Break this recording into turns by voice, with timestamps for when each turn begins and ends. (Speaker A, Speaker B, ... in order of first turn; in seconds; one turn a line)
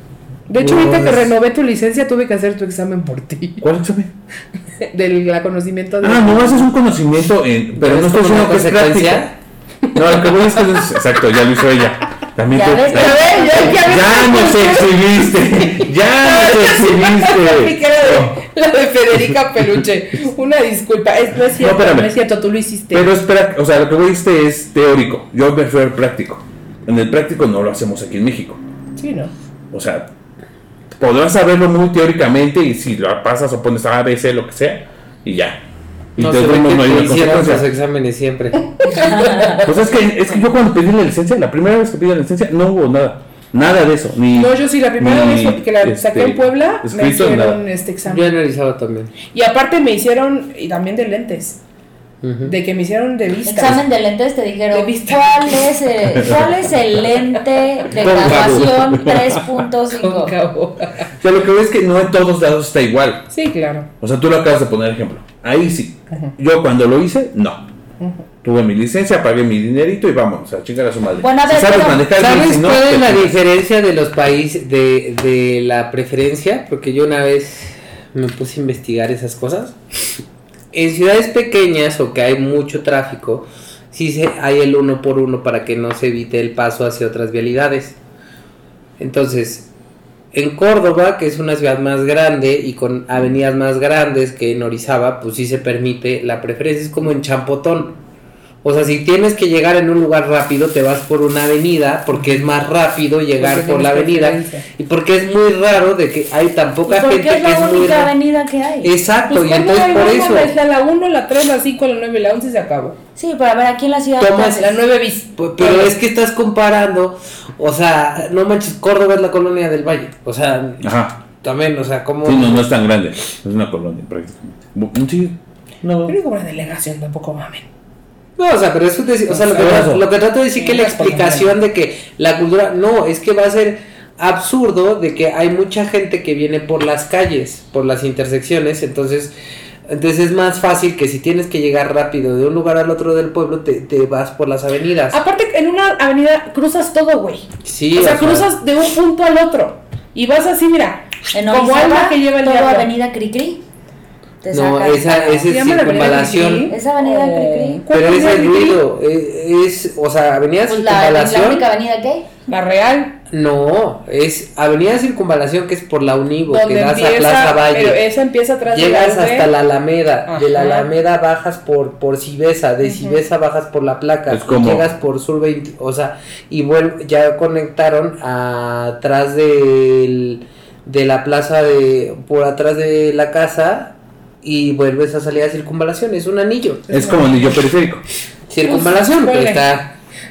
Speaker A: 0.5-3.6
Speaker B: 0.6-1.2
Speaker C: 0.6-1.2
Speaker B: 3.6-4.1
Speaker A: 4.8-6.7
Speaker B: 6.0-9.3
Speaker C: 7.8-9.3
Speaker B: 9.9-18.4
Speaker A: 10.6-10.9
Speaker D: 12.5-14.1
Speaker A: 12.9-23.1
Speaker B: 21.6-22.1
Speaker B: 22.9-28.6
Speaker A: 29.0-29.3
Speaker B: 29.7-30.1
Speaker B: 31.0-35.6
Speaker B: 36.1-37.6
Speaker C: 36.2-38.8
Speaker A: 38.8-39.7
Speaker D: 38.9-39.6
Speaker B: 39.5-47.6
Speaker A: 44.3-48.3
Speaker C: 48.0-49.1
Speaker A: 49.3-51.6
Speaker C: 52.2-52.5
Speaker A: 52.4-53.8
Speaker D: 53.4-60.3
Speaker A: 54.7-55.7
Speaker B: 57.9-59.6
Speaker A: 59.9-61.1
Speaker B: 61.2-63.3
Speaker A: 63.3-63.9
Speaker B: 64.0-67.7
Speaker B: 68.4-73.4
Speaker D: 71.2-72.0
Speaker C: 72.2-79.8
Speaker C: 80.7-88.0
Speaker C: 89.0-89.7
Speaker C: 90.3-98.0
Speaker C: 98.6-108.1
Speaker A: 103.4-104.6
Speaker D: 106.9-108.9
Speaker C: 108.8-110.5
Speaker A: 109.3-113.0
Speaker D: 113.2-114.8
Speaker C: 114.2-114.6
Speaker A: 114.5-115.9
Speaker C: 115.4-122.7
Speaker B: 120.8-121.2
Speaker B: 122.2-126.2
Speaker A: 126.0-127.7
Speaker C: 128.4-139.3
Speaker A: 129.3-129.9
Speaker B: 129.5-130.0
Speaker A: 130.5-131.5
Speaker C: 139.9-145.2
Speaker A: 145.1-152.9
Speaker C: 147.6-148.5
Speaker D: 151.3-153.6
Speaker D: 154.4-155.5
Speaker C: 154.5-156.7
Speaker A: 155.4-158.8
Speaker D: 156.7-157.9
Speaker C: 157.9-161.7
Speaker D: 160.7-162.3
Speaker A: 162.5-163.2
Speaker C: 163.3-168.0
Speaker A: 166.5-169.5
Speaker C: 168.7-186.8
Speaker A: 170.3-170.9
Speaker A: 172.8-173.2
Speaker B: 174.3-174.9
Speaker A: 186.9-187.6
Speaker B: 186.9-188.0
Speaker C: 188.5-189.9
Speaker A: 188.6-189.6